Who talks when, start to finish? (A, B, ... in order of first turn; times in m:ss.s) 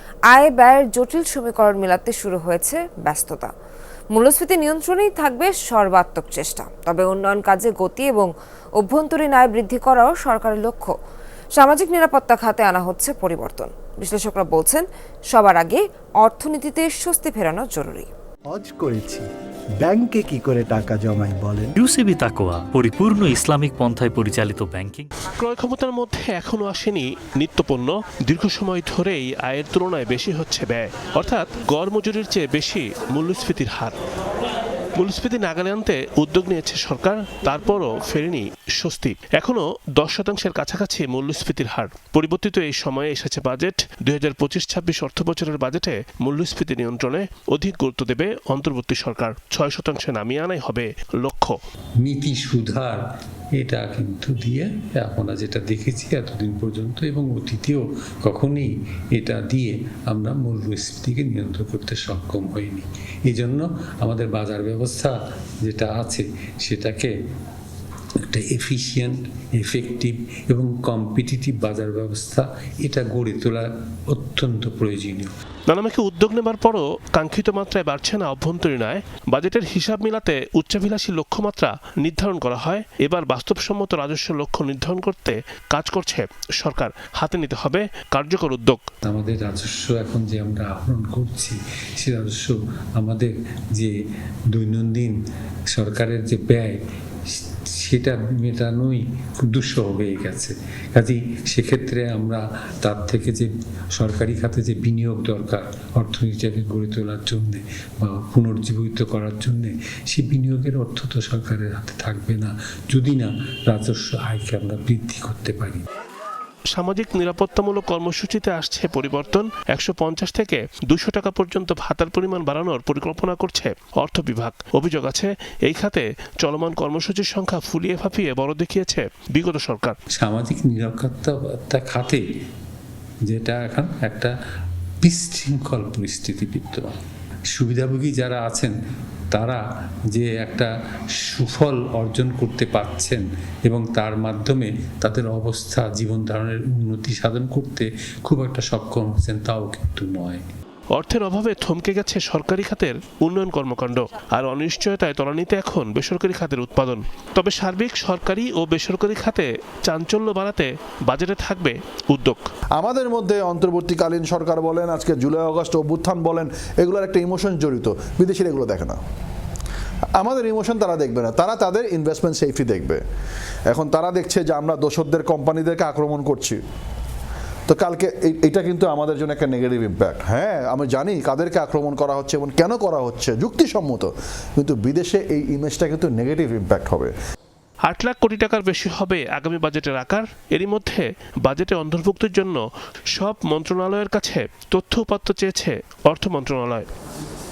0:00.3-0:03.5 A
0:04.1-0:10.9 A
0:11.6-0:18.1 A
0:18.5-0:19.3 B
0:19.8-0:21.8 B
0:21.8-0:25.1 C
0:25.3-0:33.9 D
0:35.0-0:51.6 D
0:52.0-0:53.0 E
0:53.6-1:07.1 E
1:08.2-1:15.3 E
1:15.7-1:28.8 D
1:29.0-1:33.9 E
1:34.5-1:35.2 E
1:35.7-1:36.8 E
1:37.3-1:55.8 E
1:56.7-2:10.0 D
2:10.1-2:12.2 E
2:13.2-2:14.3 E
2:15.0-2:16.9 E
2:17.5-2:18.7 E
2:19.3-2:19.6 E
2:20.1-2:30.4 E
2:30.9-2:42.4 D
2:42.8-2:49.0 F
2:50.2-2:53.0 F
2:53.7-2:56.6 F
2:57.7-3:07.1 F
3:07.8-3:12.6 D
3:13.2-3:16.9 D